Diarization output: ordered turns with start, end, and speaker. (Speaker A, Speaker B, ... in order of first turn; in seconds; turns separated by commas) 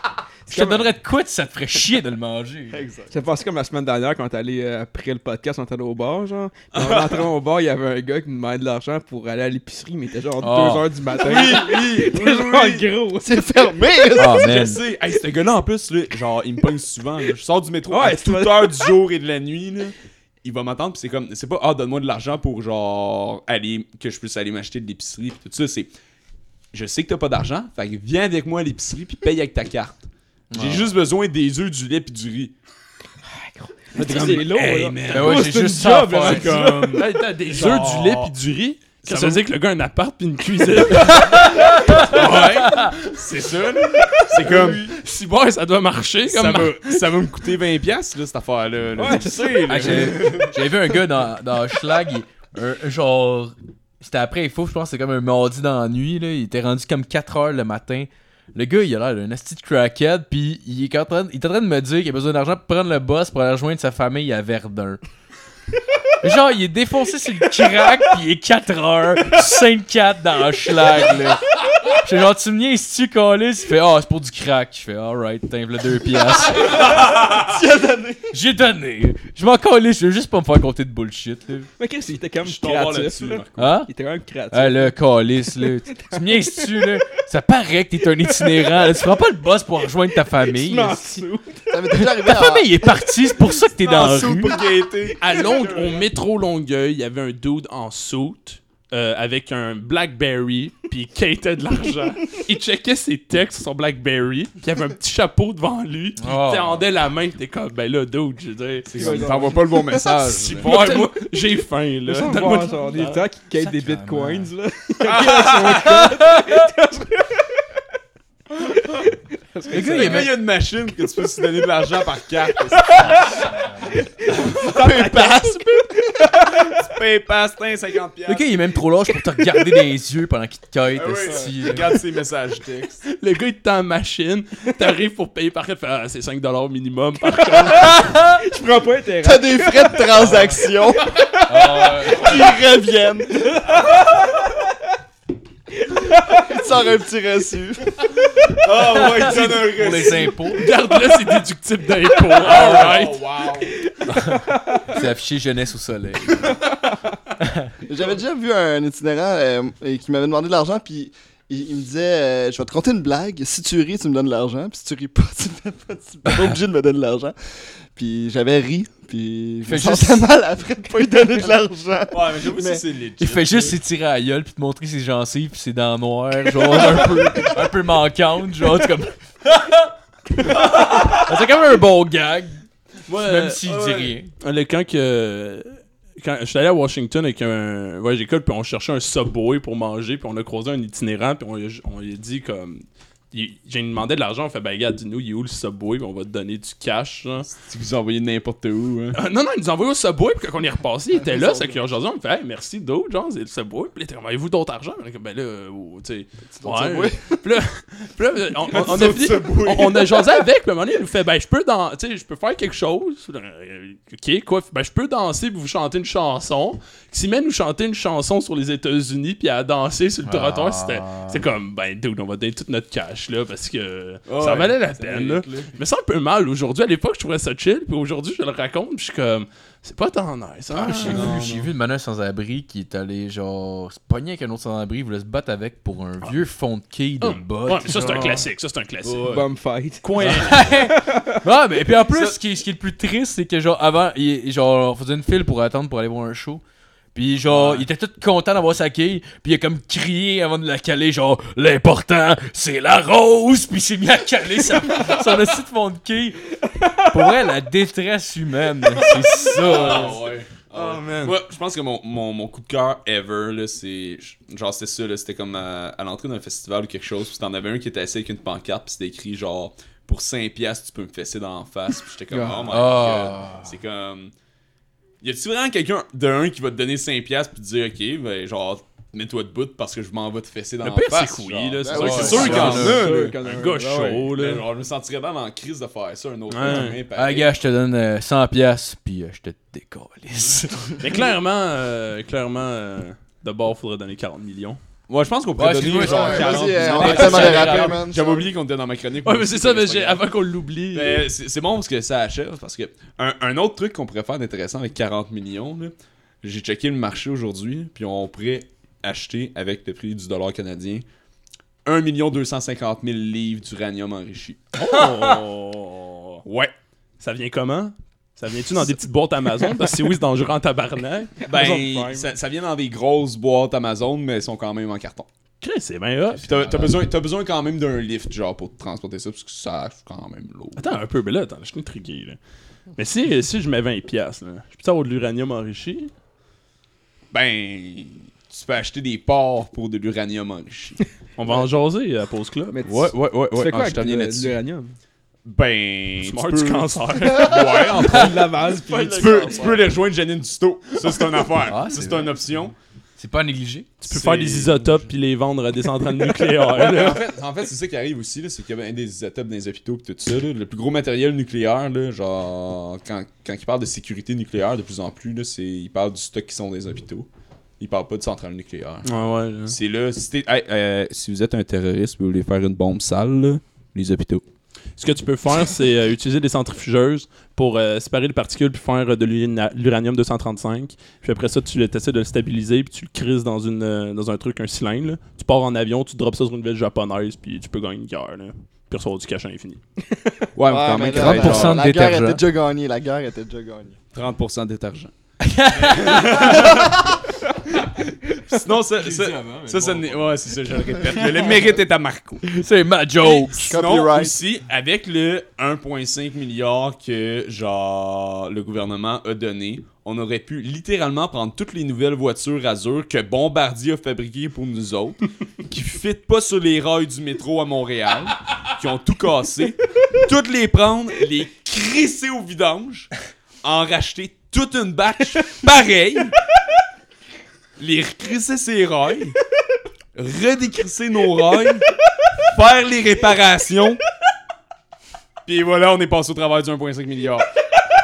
Speaker A: 0.5-0.9, Speaker B: 0.5-2.8, Speaker C: 2.7-3.1, Speaker A: 3.0-14.0, Speaker D: 6.7-7.3, Speaker B: 10.4-10.9, Speaker D: 11.1-12.9, Speaker C: 13.2-14.5, Speaker B: 14.2-14.8, Speaker D: 14.3-25.9, Speaker A: 17.9-18.9, Speaker D: 26.7-32.5, Speaker B: 30.5-30.9, Speaker A: 33.4-37.0, Speaker D: 34.0-38.3, Speaker B: 35.1-36.5, Speaker E: 36.9-41.6, Speaker D: 39.0-39.5, Speaker B: 41.2-42.2, Speaker D: 41.6-44.9, Speaker E: 42.1-42.8, Speaker A: 44.1-44.9, Speaker E: 44.9-47.2, Speaker D: 46.3-50.6, Speaker A: 49.0-50.3, Speaker B: 49.7-65.0, Speaker B: 66.2-76.8, Speaker D: 76.6-77.6, Speaker C: 77.3-78.3, Speaker B: 78.3-81.7, Speaker A: 81.8-84.9, Speaker D: 82.4-83.7, Speaker B: 83.6-83.9, Speaker B: 84.5-91.2, Speaker A: 85.9-86.9, Speaker A: 88.2-88.8, Speaker A: 90.2-91.9, Speaker C: 91.7-92.7, Speaker B: 92.0-94.5, Speaker D: 93.8-96.1, Speaker E: 95.2-109.3, Speaker B: 106.2-106.9, Speaker D: 108.9-111.1, Speaker A: 108.9-110.4, Speaker B: 110.0-110.7, Speaker E: 110.6-113.2, Speaker A: 112.0-117.5, Speaker B: 113.5-114.5, Speaker D: 115.0-116.1, Speaker A: 118.7-120.3, Speaker B: 119.7-120.3, Speaker D: 119.7-123.3, Speaker A: 122.8-126.8, Speaker D: 124.3-125.5, Speaker C: 124.6-126.0, Speaker D: 126.4-128.7, Speaker B: 128.3-131.9, Speaker D: 130.9-133.0, Speaker E: 133.1-138.1, Speaker A: 137.5-140.2, Speaker C: 139.2-141.3, Speaker B: 140.2-140.6, Speaker A: 141.2-142.1, Speaker B: 141.5-142.4, Speaker C: 142.0-143.6, Speaker A: 143.5-143.8, Speaker A: 145.9-146.5, Speaker C: 146.3-148.0, Speaker D: 148.4-150.4, Speaker B: 149.1-150.7, Speaker E: 150.5-153.2, Speaker D: 152.4-153.8, Speaker B: 152.6-152.9, Speaker B: 154.2-156.6, Speaker A: 154.2-155.0, Speaker C: 157.9-167.3, Speaker C: 167.9-172.8, Speaker B: 169.7-170.3, Speaker D: 172.1-173.8, Speaker B: 173.2-179.9, Speaker D: 180.5-181.3, Speaker B: 180.5-182.6, Speaker D: 183.1-184.2, Speaker B: 183.2-184.3, Speaker E: 183.2-183.6, Speaker E: 184.4-197.5, Speaker D: 197.5-199.2, Speaker E: 199.2-231.3, Speaker C: 201.2-201.8, Speaker C: 206.6-207.4, Speaker D: 208.7-210.2, Speaker B: 220.2-221.4, Speaker D: 224.3-225.7, Speaker D: 230.7-231.7, Speaker B: 230.8-238.4, Speaker E: 237.2-239.4, Speaker D: 239.0-239.4, Speaker A: 239.2-241.4, Speaker E: 240.0-240.6, Speaker B: 240.2-246.6, Speaker D: 242.0-242.4, Speaker B: 247.2-260.2, Speaker E: 247.5-247.8, Speaker D: 259.5-274.3, Speaker E: 260.8-261.3, Speaker A: 272.3-272.7, Speaker B: 272.7-273.7, Speaker D: 275.2-283.4, Speaker E: 280.8-284.7, Speaker C: 281.9-282.4, Speaker B: 281.9-283.1, Speaker A: 282.1-284.3, Speaker D: 284.2-287.6, Speaker E: 286.5-287.0, Speaker B: 287.1-291.0, Speaker E: 291.0-294.8, Speaker D: 295.1-300.2, Speaker B: 295.6-298.0, Speaker C: 296.0-298.5, Speaker E: 299.2-301.3, Speaker D: 300.9-311.1, Speaker D: 311.9-315.3, Speaker E: 314.8-316.4, Speaker D: 316.4-316.7, Speaker E: 317.2-321.4, Speaker A: 321.4-322.3, Speaker D: 321.5-325.3, Speaker E: 325.6-326.9, Speaker D: 326.4-330.9, Speaker E: 330.8-332.4, Speaker E: 333.0-336.1, Speaker D: 337.3-341.0, Speaker E: 341.4-342.8, Speaker A: 342.7-344.9, Speaker D: 342.8-344.6, Speaker D: 345.5-352.8, Speaker E: 346.2-347.7, Speaker A: 347.9-349.9, Speaker B: 351.7-352.4, Speaker B: 353.2-353.9, Speaker E: 354.0-357.3, Speaker D: 354.1-355.0, Speaker D: 356.7-367.3, Speaker D: 367.8-369.1, Speaker E: 369.1-369.8, Speaker D: 369.7-374.4, Speaker E: 375.0-389.8, Speaker D: 390.6-391.8, Speaker C: 390.6-394.0, Speaker B: 391.1-392.4, Speaker D: 394.1-395.1, Speaker B: 395.4-396.4, Speaker D: 395.7-397.2, Speaker D: 398.5-402.5, Speaker B: 399.0-400.4, Speaker B: 402.5-403.8, Speaker D: 403.2-423.1, Speaker C: 403.6-404.4, Speaker D: 423.6-426.4, Speaker D: 427.8-429.4, Speaker D: 430.1-431.9, Speaker D: 432.4-434.0, Speaker D: 435.4-437.5